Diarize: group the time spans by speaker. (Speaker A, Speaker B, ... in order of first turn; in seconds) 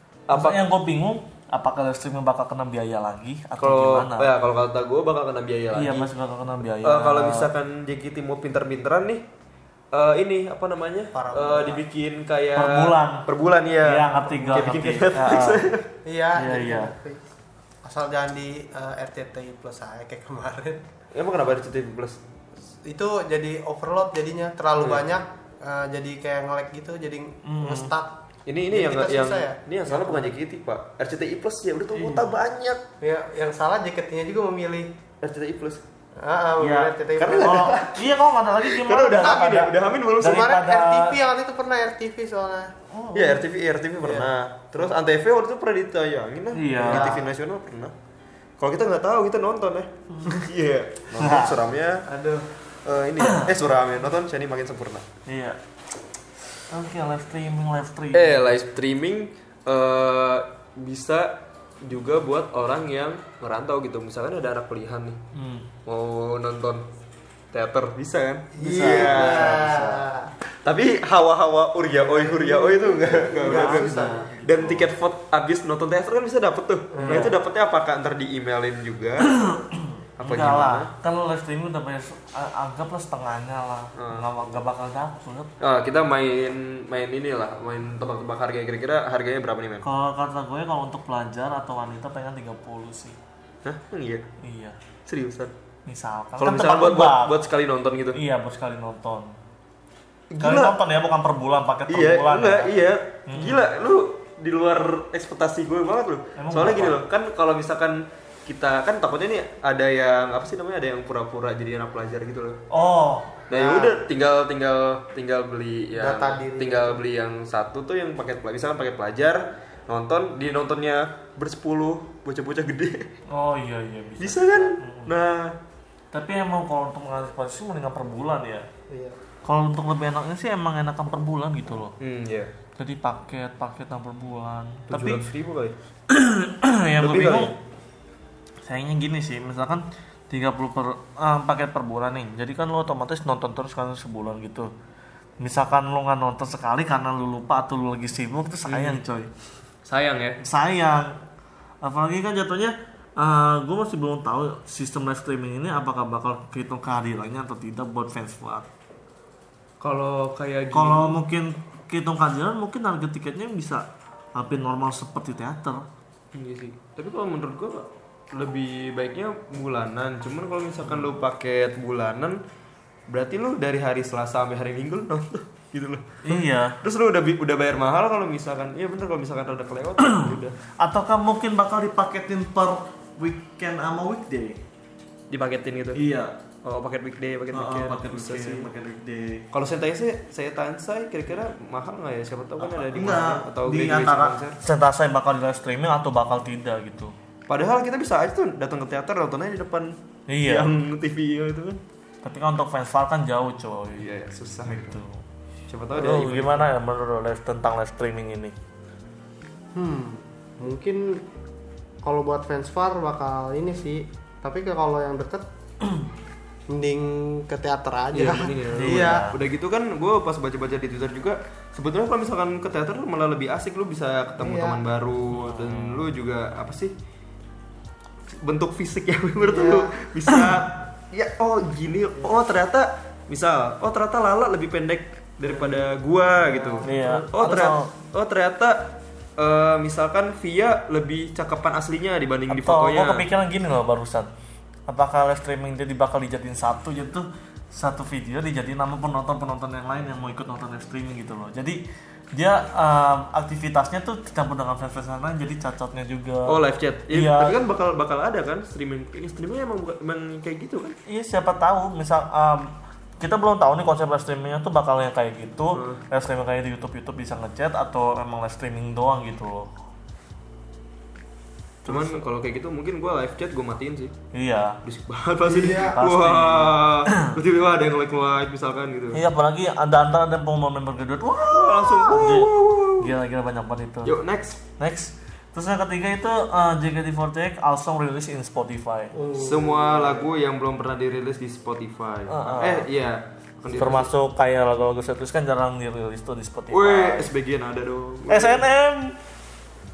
Speaker A: 0.3-0.6, 3.6-6.1, 6.8-9.2, 9.9-15.8, 21.1-22.2, 24.8-25.0, 28.5-32.8, 35.2-35.8, 37.2-38.0, 38.7-40.5, 43.1-47.9, 48.6-52.0, 52.8-55.0, 58.1-65.2, 65.8-66.8, 67.5-69.9, 70.6-79.3, 80.2-80.9, 84.0-84.4, 85.6-89.8, 93.6-94.2, 95.0-95.5, 96.4-98.2, 100.3-100.8, 101.9-112.6, 113.5-123.1, 124.2-125.5, 132.0-132.5, 134.9-135.8, 137.0-137.5, 148.7-149.0, 149.8-150.4, 159.8-161.1, 166.3-172.4, 173.1-180.6, 185.3-186.0, 186.6-188.7, 189.5-194.6, 197.5-201.8, 204.0-205.0, 205.7-206.7, 218.1-226.9, 228.3-243.2, 256.5-261.0, 265.7-266.0, 271.8-274.1, 274.8-279.2, 281.5-283.1, 284.0-284.6, 289.4-294.1, 296.7-298.6
Speaker B: 0.3-4.3, 5.7-7.5, 12.6-13.3, 13.8-15.7, 16.3-16.9, 27.4-27.9, 31.9-32.4, 36.6-39.6, 40.2-41.2, 42.9-43.4, 46.5-47.1, 51.1-51.6, 53.2-53.5, 55.3-55.6, 56.7-58.5, 65.3-65.7, 68.7-69.8, 73.4-74.9, 77.0-77.3, 79.2-85.5, 89.8-93.2, 94.4-94.8, 95.8-97.4, 98.1-99.3, 100.4-102.7, 103.3-103.7, 106.3-107.0, 112.7-113.4, 123.3-125.1, 126.1-128.7, 129.4-131.9, 132.8-135.3, 136.1-137.5, 138.6-144.7, 145.4-149.3, 150.4-151.2, 151.8-158.7, 160.7-165.9, 170.9-171.1, 176.2-176.8, 180.0-184.6, 185.9-186.3, 187.5-189.5, 192.6-197.1, 200.3-200.7, 202.2-204.1, 204.7-205.2, 205.9-208.5, 215.8-216.1, 218.7-219.4, 225.3-226.1, 236.8-237.9, 242.5-244.3, 244.9-251.8, 252.3-256.6, 257.1-257.6, 261.1-269.7, 271.8-272.2, 274.3-274.8, 275.6-277.4, 279.1-284.1, 284.8-289.1, 292.3-292.9, 293.7-297.3, 298.3-299.2
Speaker C: 11.1-11.8, 16.0-17.2, 17.8-20.8, 22.8-28.1, 28.7-30.3, 33.0-34.9, 36.2-37.7, 39.2-39.7, 40.2-42.7, 44.0-44.3, 46.8-47.2, 52.0-52.5, 68.6-70.3, 72.0-74.2, 76.9-77.3, 113.5-114.0, 116.0-117.0, 128.9-129.2, 209.8-211.2, 212.0-215.4, 216.7-219.3, 224.4-224.8, 229.4-229.9, 235.5-237.3, 275.5-276.0, 289.1-290.3